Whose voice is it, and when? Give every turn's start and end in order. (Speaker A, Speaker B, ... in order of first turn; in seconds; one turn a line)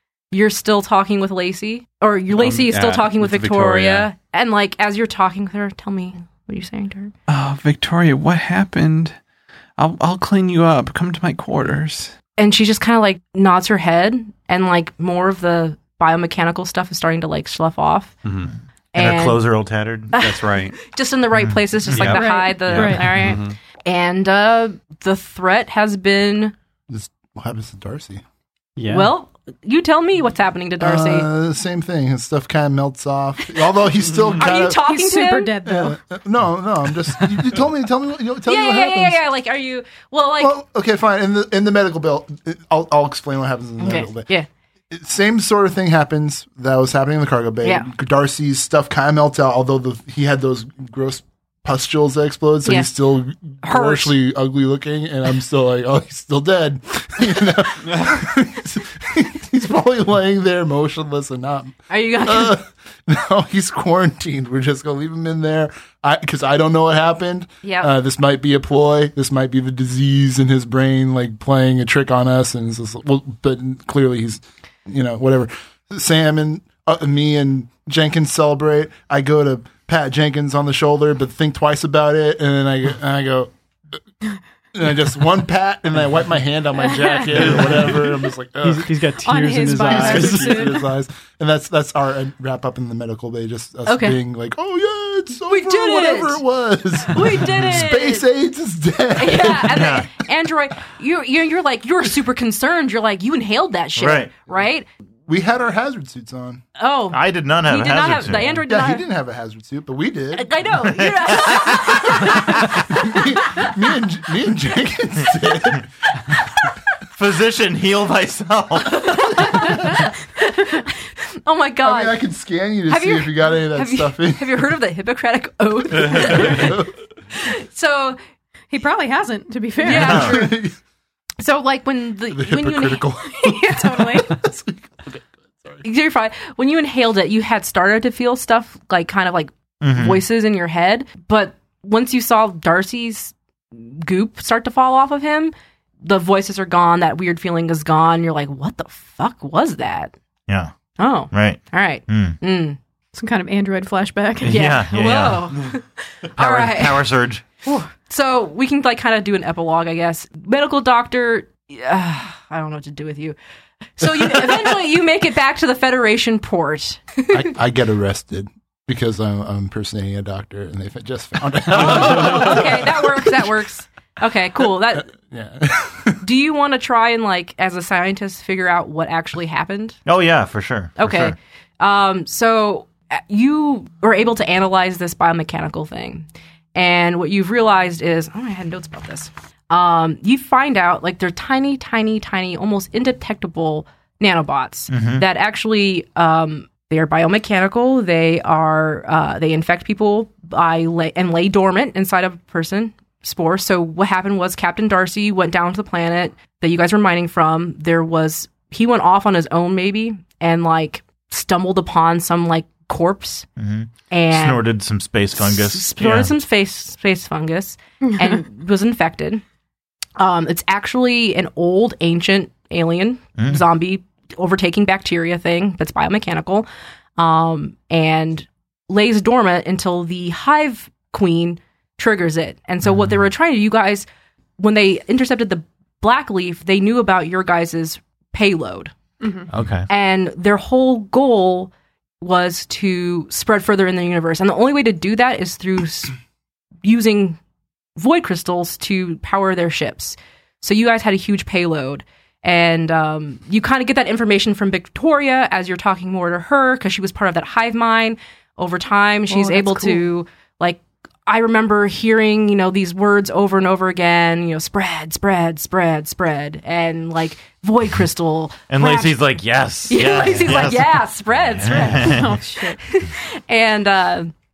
Speaker A: 0.3-7.1
Speaker B: 2.3-4.1
Speaker B: 7.3-9.2
Speaker B: 9.8-12.1
Speaker A: 12.4-18.1
Speaker B: 18.2-18.5
Speaker A: 18.9-19.4
Speaker C: 18.9-20.1
Speaker A: 20.1-26.5
Speaker B: 20.2-20.8
Speaker B: 21.9-23.6
Speaker C: 21.9-22.1
Speaker D: 22.0-23.1
Speaker E: 26.9-28.2
Speaker F: 28.8-29.1
Speaker A: 28.9-31.3
Speaker E: 30.8-34.8
Speaker A: 34.4-35.6
Speaker D: 34.8-36.0
Speaker E: 35.7-39.2
Speaker A: 38.5-40.6
Speaker E: 40.4-44.3
Speaker A: 43.8-44.5
Speaker E: 44.9-83.5
Speaker A: 52.7-52.9
Speaker A: 53.6-54.2
Speaker A: 61.9-62.6
Speaker A: 67.6-67.9
Speaker E: 84.7-88.9
Speaker D: 86.9-87.2
Speaker F: 88.6-90.8
Speaker D: 89.2-90.8
Speaker E: 89.7-100.0
Speaker A: 93.9-94.2
Speaker A: 95.5-96.4
Speaker A: 97.1-98.3
Speaker A: 99.2-104.9
Speaker C: 99.8-100.1
Speaker C: 104.0-104.3
Speaker E: 105.3-106.6
Speaker A: 106.8-109.1
Speaker C: 107.1-108.6
Speaker E: 108.3-110.8
Speaker A: 110.3-113.7
Speaker C: 110.9-112.7
Speaker E: 112.6-115.9
Speaker C: 117.2-119.5
Speaker A: 118.8-122.2
Speaker E: 121.8-124.5
Speaker A: 122.9-128.2
Speaker E: 126.0-126.9
Speaker D: 128.7-130.3
Speaker A: 129.8-130.6
Speaker C: 130.0-130.3
Speaker E: 130.1-130.8
Speaker A: 131.4-133.3
Speaker E: 132.3-135.8
Speaker D: 133.4-134.4
Speaker A: 135.8-150.2
Speaker C: 139.8-140.2
Speaker C: 150.5-150.7
Speaker A: 151.0-152.8
Speaker C: 151.3-152.4
Speaker D: 153.2-154.7
Speaker A: 154.4-157.1
Speaker C: 154.4-155.5
Speaker C: 156.4-157.5
Speaker A: 157.6-163.4
Speaker A: 164.0-167.5
Speaker E: 167.3-173.4
Speaker A: 171.7-175.1
Speaker E: 175.0-176.2
Speaker A: 176.2-180.0
Speaker C: 180.1-181.4
Speaker A: 181.0-213.5
Speaker C: 194.9-195.2
Speaker C: 213.6-216.3
Speaker A: 214.1-214.7
Speaker A: 215.4-219.4
Speaker A: 220.2-226.7
Speaker C: 223.4-223.6
Speaker A: 227.2-234.1
Speaker A: 234.6-238.9
Speaker D: 239.2-239.5
Speaker C: 239.5-239.9
Speaker A: 239.9-246.2
Speaker A: 246.8-247.4
Speaker A: 248.0-269.2
Speaker D: 259.3-260.0
Speaker C: 268.7-271.0
Speaker A: 269.9-274.3
Speaker C: 271.6-272.4
Speaker D: 272.0-272.8